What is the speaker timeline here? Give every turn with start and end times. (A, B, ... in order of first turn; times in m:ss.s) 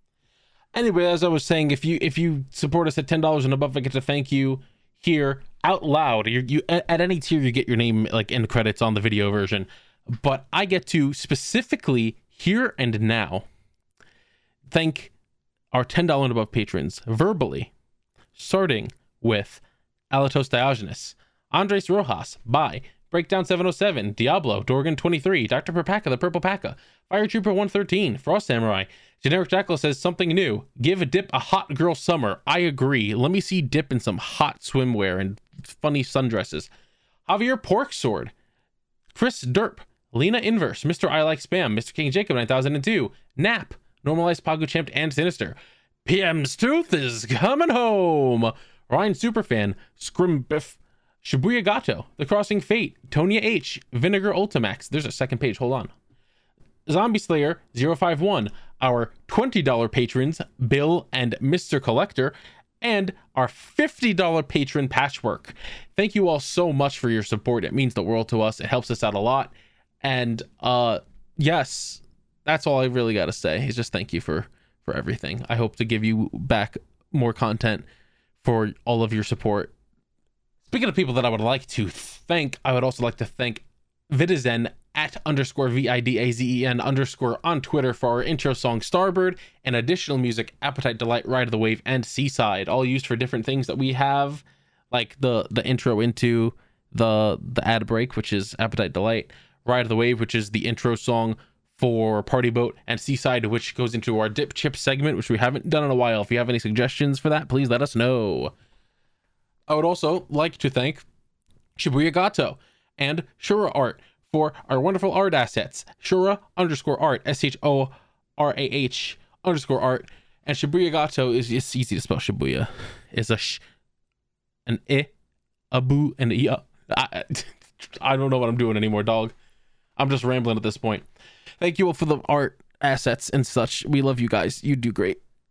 0:00.7-0:13.4 A
0:14.7-0:15.1 A
0:15.7-0:17.7 A
0:18.3-0:36.7 A
0:37.2-0:38.3 A
0:39.1-0:55.9 A
0:56.9-1:17.8 A
1:18.4-1:19.7 A
1:20.7-1:48.5 A
1:49.7-1:51.0 A
1:51.8-2:03.6 A
2:04.6-2:05.1 A
2:05.7-2:09.3 A
2:10.0-2:11.0 A
2:11.6-2:15.2 A